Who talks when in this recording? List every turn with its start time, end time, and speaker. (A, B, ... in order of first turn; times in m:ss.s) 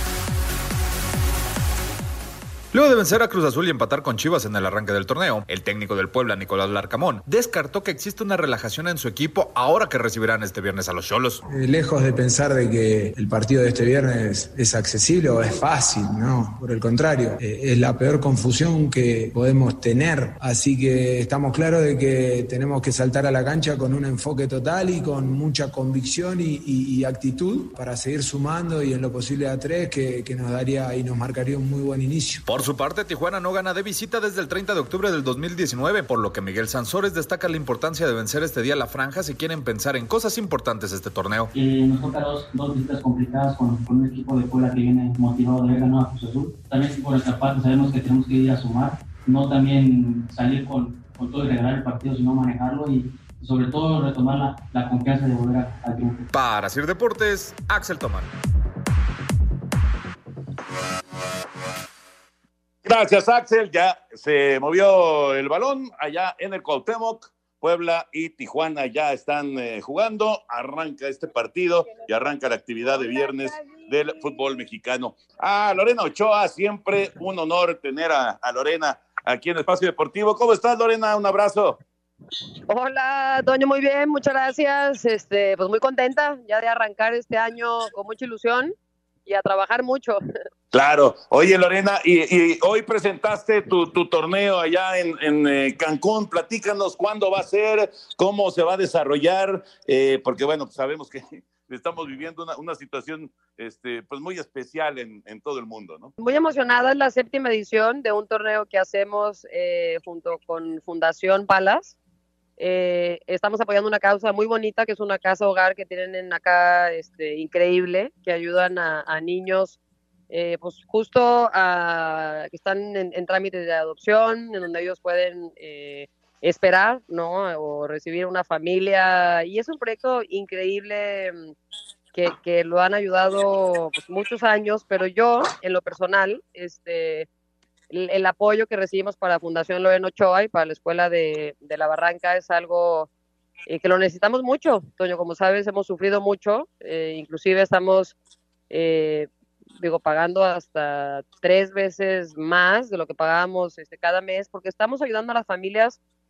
0:02.7-0:11.4 A
0:11.5-0:32.4 B
0:32.4-0:41.5 A
0:41.5-0:56.2 C
0:56.3-0:58.3 A
1:02.8-1:21.8 D
1:22.7-1:28.7 E
1:29.2-1:30.2 E
1:30.7-1:46.1 D
1:46.2-1:51.9 E
1:52.6-1:59.8 E
2:00.3-2:11.5 E
2:12.1-2:17.3 E
2:17.9-2:23.1 E
2:23.7-2:28.1 E
2:28.7-2:29.3 E
2:29.8-2:36.0 E